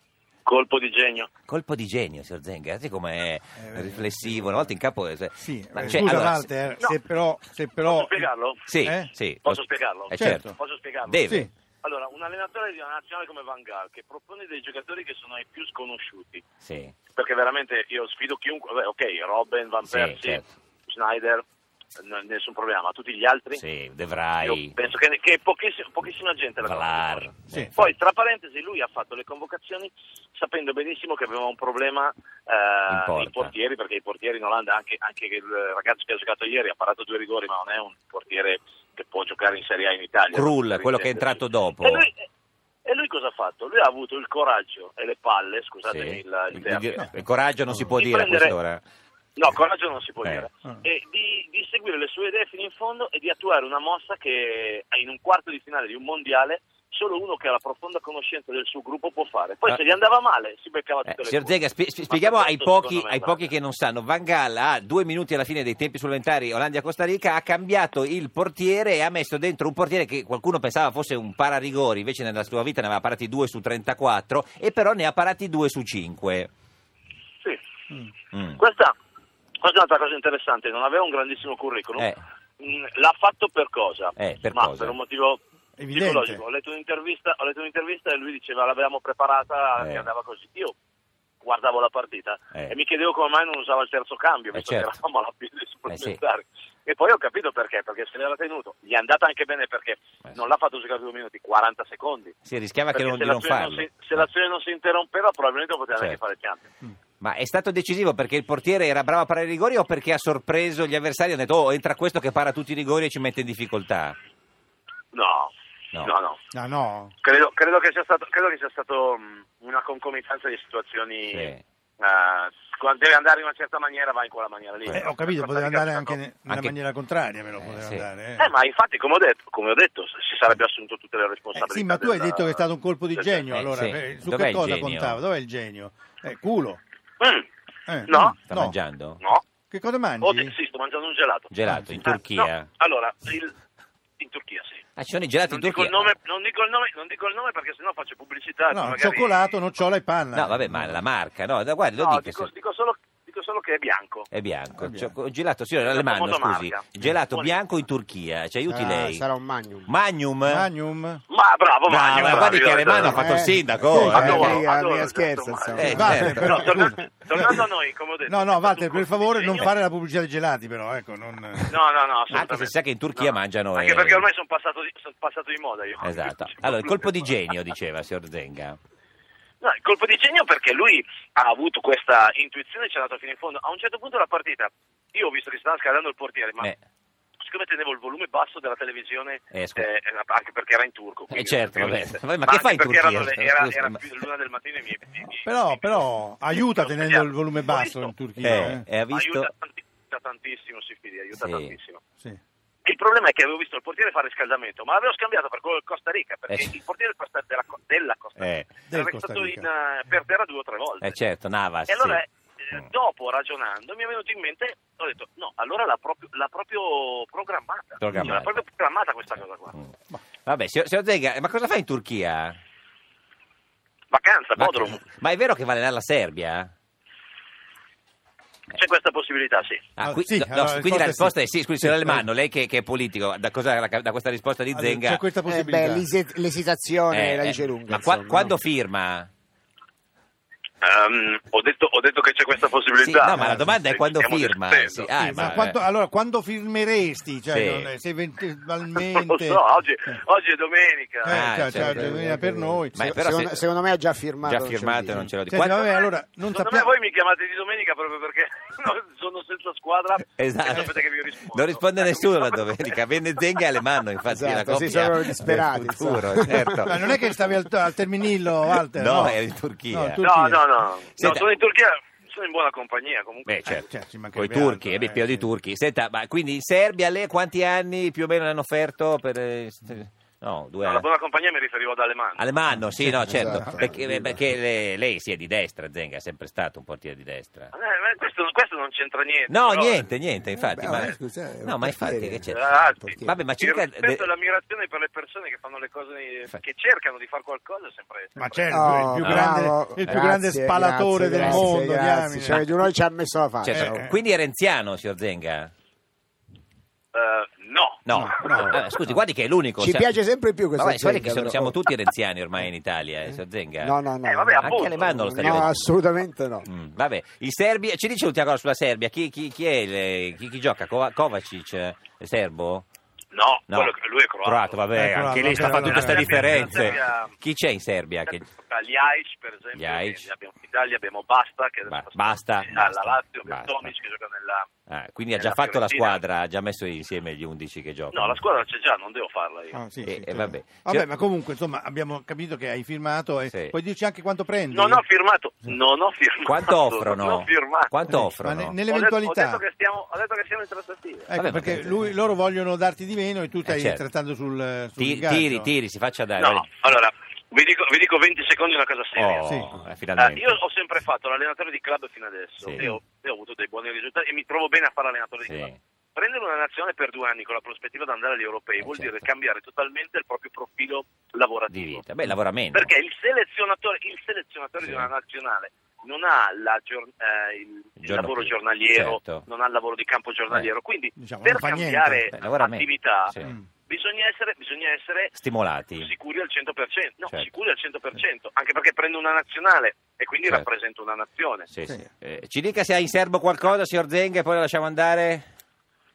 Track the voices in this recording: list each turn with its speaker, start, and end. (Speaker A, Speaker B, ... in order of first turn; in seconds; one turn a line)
Speaker A: 0.5-1.3
Speaker B: 1.5-6.5
Speaker C: 3.6-4.6
Speaker C: 5.4-8.3
Speaker A: 7.9-8.7
Speaker B: 8.7-10.5
Speaker C: 8.8-9.1
Speaker A: 9.4-11.3
Speaker C: 10.2-10.5
Speaker B: 11.1-11.5
Speaker C: 11.2-11.5
Speaker A: 11.8-16.4
Speaker B: 16.6-16.9
Speaker A: 17.2-21.4
Speaker B: 19.9-20.5
Speaker A: 22.0-23.6
Speaker B: 23.6-24.7
Speaker A: 24.4-42.2
Speaker B: 26.6-27.7
Speaker B: 32.9-33.5
Speaker B: 40.3-42.1
Speaker A: 42.9-47.0
Speaker B: 45.9-48.8
Speaker A: 48.0-48.6
Speaker A: 49.4-63.5
Speaker B: 50.2-50.5
Speaker B: 61.1-76.5
Speaker B: 78.3-78.6
Speaker A: 78.6-79.0
Speaker A: 79.6-90.8
Speaker B: 84.2-85.0
Speaker C: 85.8-86.4
Speaker B: 89.8-90.1
Speaker A: 91.4-102.3
Speaker B: 94.5-94.9
Speaker B: 95.9-96.2
Speaker B: 102.5-104.2
Speaker A: 102.9-106.7
Speaker B: 107.2-114.2
Speaker A: 115.1-116.4
Speaker C: 116.5-117.1
Speaker A: 117.2-126.2
Speaker B: 121.3-121.6
Speaker C: 124.9-128.5
Speaker B: 126.5-126.8
Speaker B: 127.6-128.1
Speaker A: 128.4-133.4
Speaker C: 131.6-136.8
Speaker B: 133.5-135.2
Speaker A: 137.2-137.5
Speaker C: 137.9-138.8
Speaker A: 138.1-138.4
Speaker B: 138.5-139.2
Speaker C: 139.7-140.6
Speaker A: 140.2-141.5
Speaker B: 141.5-142.7
Speaker A: 142.0-143.5
Speaker A: 144.2-144.8
Speaker B: 145.0-146.1
Speaker A: 145.5-149.5
Speaker C: 148.7-151.0
Speaker B: 150.3-152.5
Speaker A: 152.0-154.3
Speaker B: 154.3-159.2
Speaker C: 154.8-155.2
Speaker A: 155.8-157.6
Speaker D: 158.8-159.9
Speaker B: 159.9-160.7
Speaker C: 160.5-161.2
Speaker A: 161.3-163.3
Speaker B: 161.9-164.7
Speaker C: 162.1-162.6
Speaker D: 163.0-166.9
Speaker C: 163.8-164.5
Speaker A: 163.9-169.7
Speaker B: 165.8-166.6
Speaker C: 165.8-167.6
Speaker C: 168.3-171.8
Speaker A: 171.7-177.1
Speaker B: 172.3-174.3
Speaker B: 176.0-178.8
Speaker A: 179.6-186.7
Speaker A: 187.4-196.0
Speaker B: 189.5-189.9
Speaker B: 191.3-194.0
Speaker C: 195.4-198.9
Speaker A: 196.5-202.0
Speaker B: 198.4-199.5
Speaker B: 201.4-201.7
Speaker A: 202.8-211.2
Speaker B: 208.4-208.7
Speaker C: 208.9-209.7
Speaker B: 211.0-212.2
Speaker A: 211.9-219.8
Speaker B: 218.0-218.5
Speaker B: 220.4-222.6
Speaker A: 224.1-225.0
Speaker B: 224.6-226.7
Speaker A: 228.7-229.8
Speaker B: 230.0-235.2
Speaker C: 230.0-232.2
Speaker C: 234.7-236.1
Speaker D: 235.4-238.6
Speaker B: 237.1-239.3
Speaker A: 240.8-245.1
Speaker B: 243.0-245.8
Speaker C: 243.3-243.7
Speaker C: 245.2-250.2
Speaker B: 247.5-247.9
Speaker A: 249.1-251.4
Speaker C: 251.2-253.1
Speaker B: 251.3-252.2
Speaker D: 251.7-255.3
Speaker B: 252.9-253.7
Speaker B: 254.4-255.8
Speaker C: 255.4-256.9
Speaker A: 255.8-263.0
Speaker B: 260.4-260.9
Speaker B: 261.5-266.9
Speaker D: 264.3-267.2
Speaker C: 266.6-270.7
Speaker B: 268.9-270.3
Speaker A: 270.2-273.9
Speaker B: 271.2-271.5
Speaker B: 273.5-281.1
Speaker C: 273.8-275.5
Speaker A: 280.8-282.5
Speaker B: 282.4-287.7
Speaker C: 283.0-283.9
Speaker D: 283.3-284.4
Speaker A: 287.7-290.1
Speaker B: 289.5-294.3
Speaker D: 290.6-293.4
Speaker A: 292.5-298.9
Speaker C: 298.4-302.9
Speaker D: 298.7-304.1
Speaker B: 299.2-299.5
Speaker B: 303.6-305.7
Speaker C: 303.7-304.1
Speaker A: 307.1-308.8
Speaker B: 308.1-310.2
Speaker C: 308.1-308.8
Speaker D: 309.8-311.8
Speaker B: 310.8-314.0
Speaker D: 313.3-316.7
Speaker A: 314.2-315.2
Speaker B: 314.6-315.8
Speaker B: 316.7-322.9
Speaker A: 323.3-324.8
Speaker B: 323.7-328.4
Speaker C: 324.9-327.0
Speaker A: 325.5-327.4
Speaker A: 328.2-334.7
Speaker B: 329.8-330.2
Speaker B: 331.9-333.9
Speaker B: 334.9-338.4
Speaker A: 335.4-336.2
Speaker A: 338.1-339.8
Speaker C: 339.7-345.0
Speaker B: 340.0-341.1
Speaker B: 343.5-343.8
Speaker A: 344.7-347.9
Speaker B: 346.4-348.8
Speaker C: 348.1-349.6
Speaker A: 348.9-351.3
Speaker C: 351.3-355.7
Speaker B: 351.3-352.1
Speaker B: 353.6-354.0
Speaker B: 355.0-356.7
Speaker A: 356.4-359.6
Speaker B: 359.2-360.6
Speaker C: 359.5-359.8
Speaker A: 360.2-372.1
Speaker B: 362.6-362.9
Speaker B: 365.4-365.8
Speaker B: 368.8-369.2
Speaker B: 371.7-372.9
Speaker A: 372.7-385.4
Speaker B: 374.8-375.1
Speaker B: 378.0-379.4
Speaker C: 381.2-382.3
Speaker B: 382.3-383.6
Speaker B: 385.4-386.1
Speaker A: 386.0-391.7
Speaker B: 391.7-395.4